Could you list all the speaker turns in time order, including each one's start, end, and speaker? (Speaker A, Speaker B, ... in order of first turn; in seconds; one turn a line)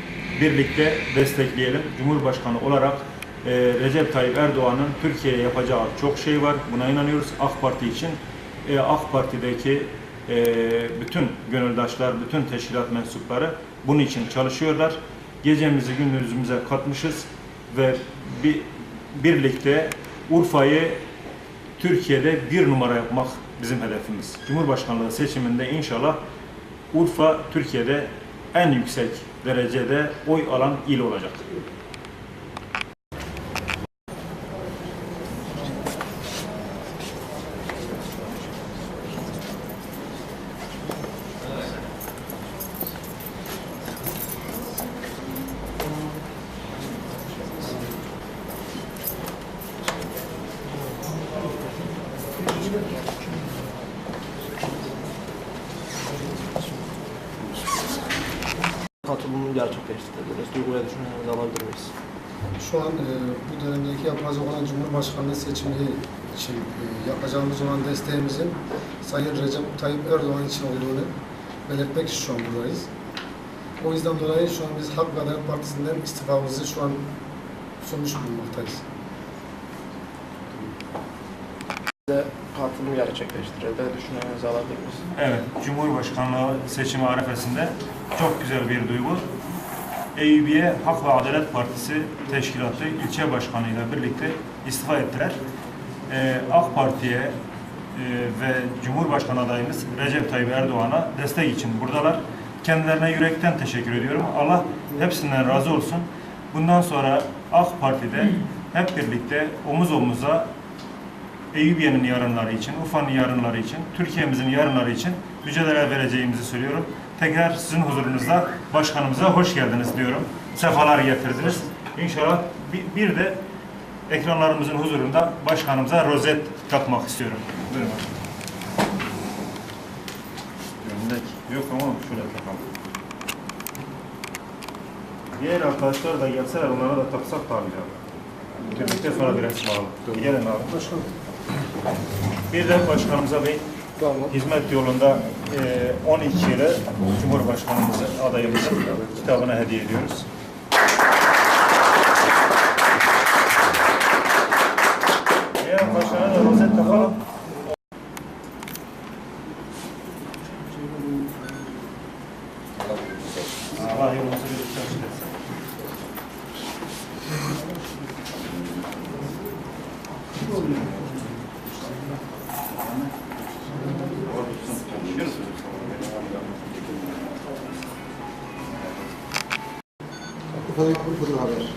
Speaker A: 0.3-21.0
Speaker A: 21.8-26.2
Speaker A: 26.9-31.5
Speaker B: 59.0-61.9
Speaker C: 62.6-71.1
Speaker C: 71.7-72.9
Speaker C: 73.8-77.0
Speaker C: 77.8-78.8
Speaker B: 82.1-85.1
Speaker A: 85.1-89.3
Speaker A: 90.1-95.4
Speaker A: 96.1-97.4
Speaker A: 97.9-110.5
Speaker A: 111.5-123.4
Speaker A: 124.1-128.1
Speaker A: 130.8-132.7
Speaker A: 135.3-137.9
Speaker A: 138.6-140.8
Speaker C: 140.7-141.1
Speaker A: 142.5-143.7
Speaker B: 144.0-144.3
Speaker A: 144.3-150.3
Speaker A: 155.6-157.2
Speaker A: 163.7-165.3
Speaker A: 174.1-177.0